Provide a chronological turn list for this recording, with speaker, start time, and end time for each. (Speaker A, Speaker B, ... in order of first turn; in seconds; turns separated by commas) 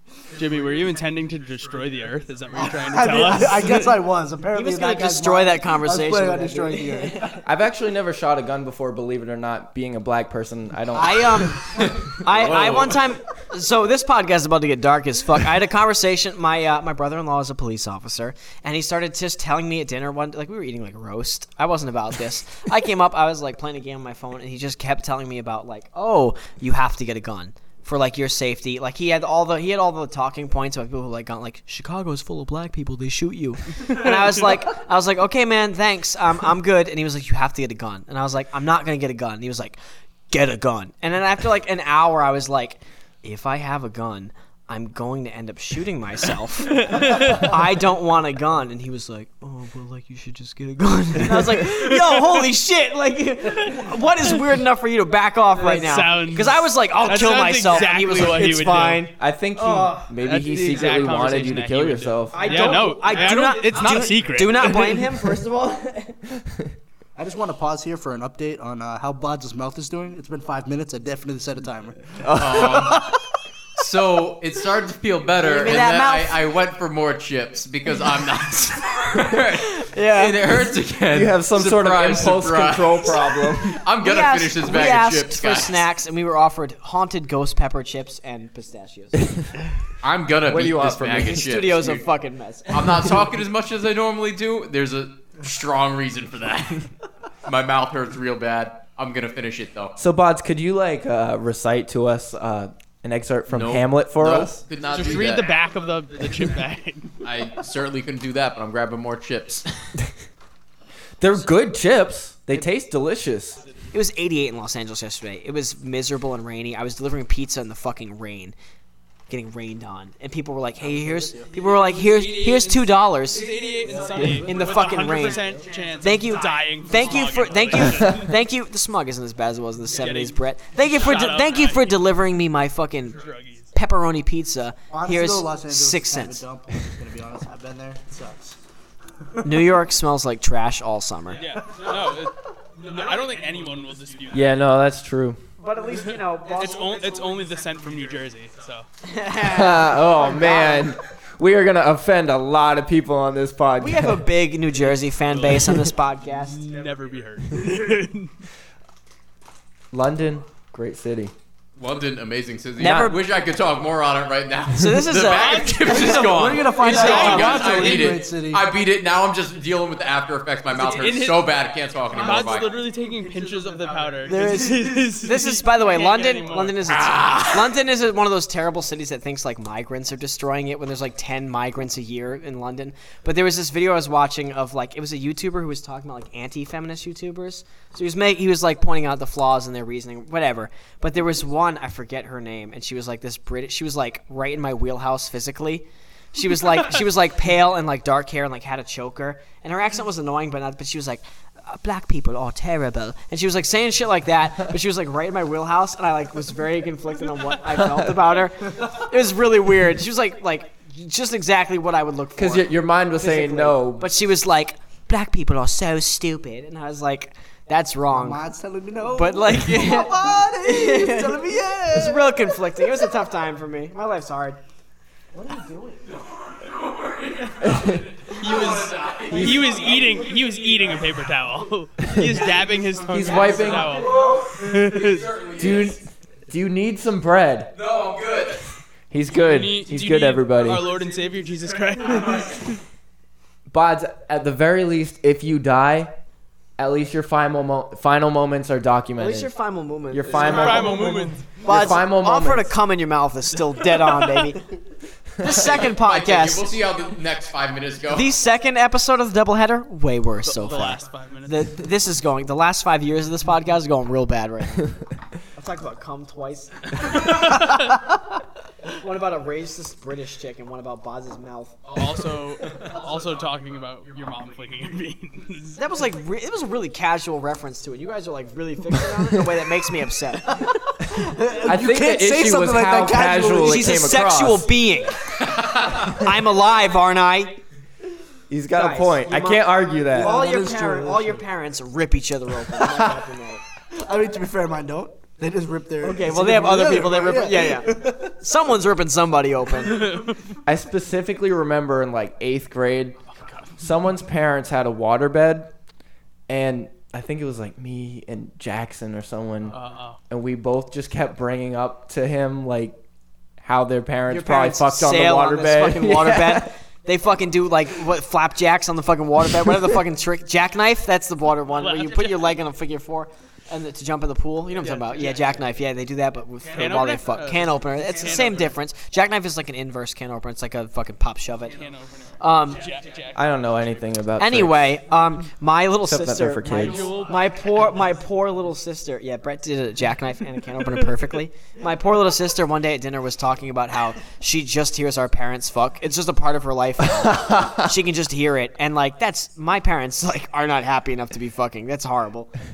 Speaker A: 0.3-4.0, Speaker B: 2.5-7.3, Speaker C: 4.5-7.4, Speaker D: 7.4-11.6, Speaker C: 10.9-39.8, Speaker E: 11.8-13.0, Speaker C: 40.3-60.1, Speaker A: 46.8-47.5, Speaker A: 51.8-52.1, Speaker A: 55.6-59.0, Speaker D: 59.2-62.7, Speaker A: 60.2-65.0, Speaker C: 62.3-66.2, Speaker D: 66.5-66.7, Speaker B: 67.2-73.0, Speaker D: 72.2-72.9, Speaker E: 72.3-73.1, Speaker E: 73.8-85.8, Speaker C: 75.4-76.4, Speaker C: 79.6-80.4, Speaker D: 81.1-83.8, Speaker C: 84.0-89.3, Speaker E: 90.0-92.1, Speaker D: 90.5-91.5, Speaker C: 91.2-93.0, Speaker E: 92.7-96.9, Speaker E: 97.5-100.0, Speaker D: 100.0-104.6, Speaker E: 103.5-105.5, Speaker A: 104.9-107.2, Speaker E: 107.2-109.7, Speaker D: 111.2-113.6, Speaker C: 113.9-118.5, Speaker C: 119.3-123.5, Speaker B: 120.8-121.5, Speaker A: 121.5-128.3, Speaker C: 124.4-125.5, Speaker C: 126.0-133.2, Speaker A: 129.9-132.0, Speaker A: 133.2-133.7, Speaker C: 133.7-136.4, Speaker B: 134.9-138.6, Speaker C: 139.4-141.4, Speaker A: 141.4-144.5, Speaker D: 144.3-145.4, Speaker C: 145.6-147.1, Speaker A: 146.5-148.9, Speaker C: 149.0-150.9, Speaker D: 149.4-154.2, Speaker C: 153.8-156.7, Speaker A: 155.3-155.7, Speaker A: 156.5-158.3, Speaker D: 159.9-161.3, Speaker E: 161.8-172.7, Speaker C: 162.8-163.2, Speaker D: 162.8-163.1, Speaker C: 164.8-166.3, Speaker A: 165.3-166.2, Speaker B: 165.9-168.7, Speaker A: 166.8-168.2, Speaker C: 167.1-167.6, Speaker A: 170.7-171.5, Speaker A: 172.2-176.9, Speaker C: 174.3-218.4, Speaker E: 176.9-177.7, Speaker D: 207.8-208.1, Speaker D: 212.4-214.1, Speaker B: 218.1-222.4, Speaker C: 219.1-224.6, Speaker B: 225.3-226.0, Speaker E: 226.4-230.1, Speaker D: 227.6-228.1, Speaker A: 228.3-235.3, Speaker D: 229.3-229.6, Speaker D: 232.1-232.3, Speaker D: 233.1-233.9, Speaker E: 233.9-236.0, Speaker D: 235.6-237.7, Speaker E: 237.8-238.6, Speaker D: 239.1-240.8, Speaker A: 239.3-242.8, Speaker D: 243.7-246.1, Speaker D: 246.8-249.5, Speaker C: 249.2-254.6, Speaker D: 250.1-252.7, Speaker A: 250.3-251.6, Speaker C: 255.4-256.8, Speaker E: 255.5-258.3, Speaker C: 258.1-264.9, Speaker A: 260.4-261.7, Speaker C: 265.6-267.7, Speaker A: 267.2-267.8, Speaker C: 268.9-271.9, Speaker A: 271.9-275.8, Speaker C: 275.8-280.7, Speaker B: 281.1-283.9, Speaker D: 281.6-284.7, Speaker C: 283.6-287.6, Speaker D: 288.5-290.3, Speaker C: 288.7-293.6, Speaker B: 290.1-291.4, Speaker B: 293.9-298.4, Speaker C: 296.0-300.2, Speaker A: 299.8-300.5, Speaker D: 300.7-303.2, Speaker A: 303.4-303.7, Speaker D: 303.8-305.7, Speaker D: 306.5-309.8, Speaker A: 309.7-310.2, Speaker D: 310.3-313.0, Speaker D: 313.6-316.7, Speaker C: 314.3-331.8, Speaker A: 321.8-322.5, Speaker A: 324.8-325.5, Speaker A: 326.7-328.8, Speaker A: 331.7-333.5, Speaker C: 332.4-332.9, Speaker D: 333.3-335.0, Speaker C: 334.4-352.5, Speaker D: 336.1-337.1, Speaker A: 336.7-337.5, Speaker D: 347.1-347.9